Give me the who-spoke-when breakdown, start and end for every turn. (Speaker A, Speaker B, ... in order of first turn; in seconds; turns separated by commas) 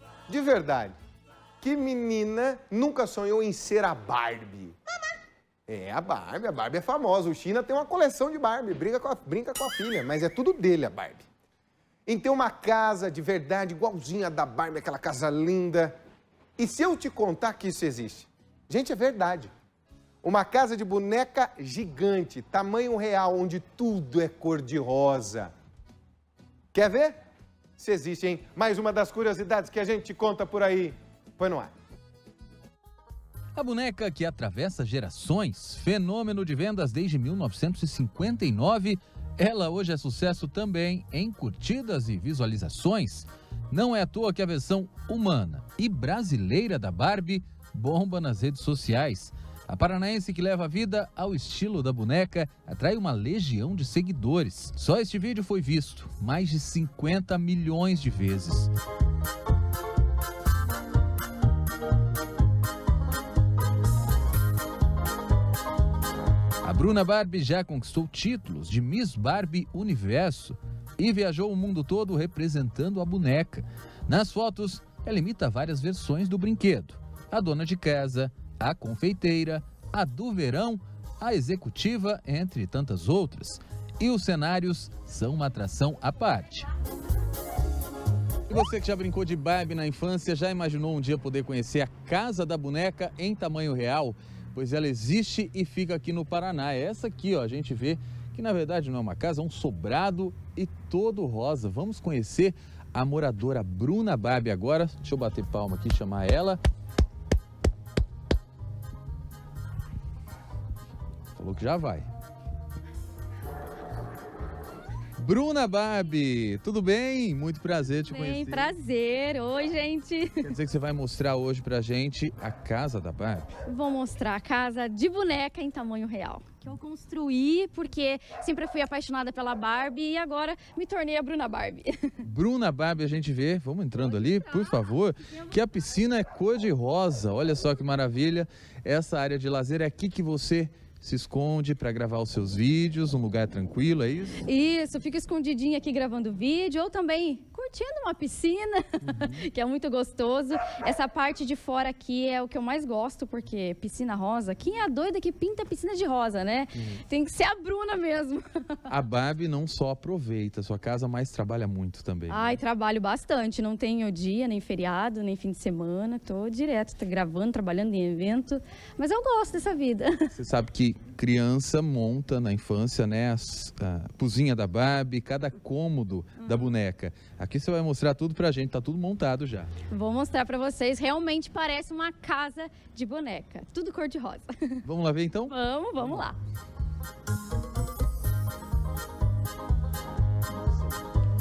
Speaker A: 0.3-0.9, Speaker A: 1.6-4.8, Speaker A: 5.7-11.2, Speaker A: 12.1-15.9, Speaker A: 16.6-19.5, Speaker A: 20.2-25.5, Speaker A: 26.7-27.1, Speaker A: 27.8-31.7, Speaker B: 33.5-58.7, Speaker B: 66.6-86.7, Speaker B: 88.5-106.6, Speaker B: 111.3-112.1, Speaker B: 115.2-118.7, Speaker C: 118.1-120.5, Speaker B: 120.4-123.5, Speaker C: 123.7-132.1, Speaker B: 132.2-144.4, Speaker C: 134.0-135.5, Speaker C: 144.4-158.4, Speaker B: 149.1-149.4, Speaker B: 158.9-162.6, Speaker C: 162.3-170.3, Speaker B: 170.3-179.7, Speaker C: 176.4-176.7, Speaker C: 179.9-184.8, Speaker B: 184.8-185.5, Speaker C: 185.5-186.4